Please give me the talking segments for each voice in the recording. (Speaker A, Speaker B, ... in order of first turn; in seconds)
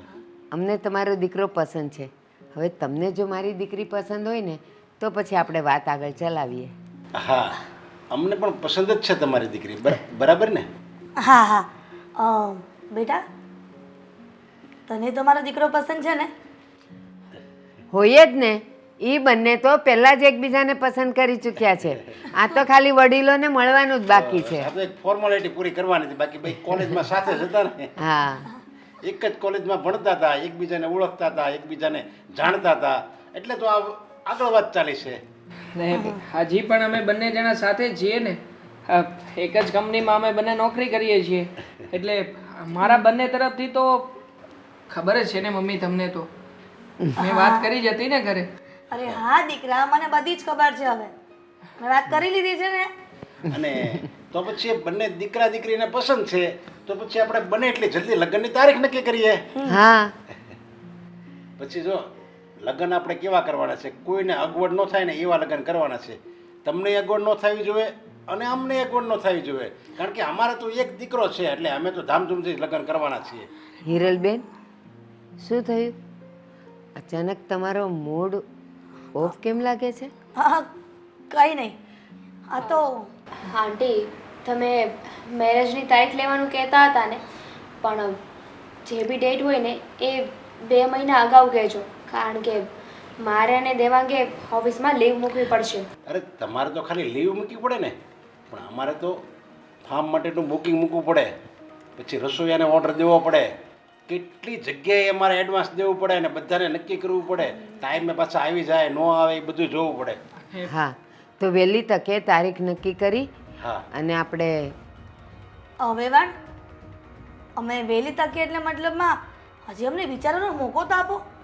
Speaker A: 0.5-6.7, 17.9-24.7, 28.0-28.5, 59.6-60.1, 73.8-74.5, 75.4-76.0, 77.0-78.4, 79.2-80.1, 110.6-113.3, 113.9-114.8
Speaker B: 7.2-10.7, 24.1-27.9, 29.0-35.2, 53.5-59.5, 61.6-62.0, 62.6-73.5, 96.1-98.0, 98.5-99.2, 99.8-101.3, 102.0-103.5, 104.1-110.2
Speaker C: 11.2-13.2, 14.9-16.3, 35.9-36.2, 47.2-47.7, 48.9-51.1, 51.8-52.9, 59.5-59.8, 80.4-80.7, 81.3-81.8, 82.5-83.1, 115.8-116.3, 117.6-121.2
Speaker D: 35.7-44.1, 44.9-46.3, 47.2-48.5, 110.5-110.7
Speaker E: 83.4-87.2, 87.8-88.2, 88.9-92.7, 93.2-95.9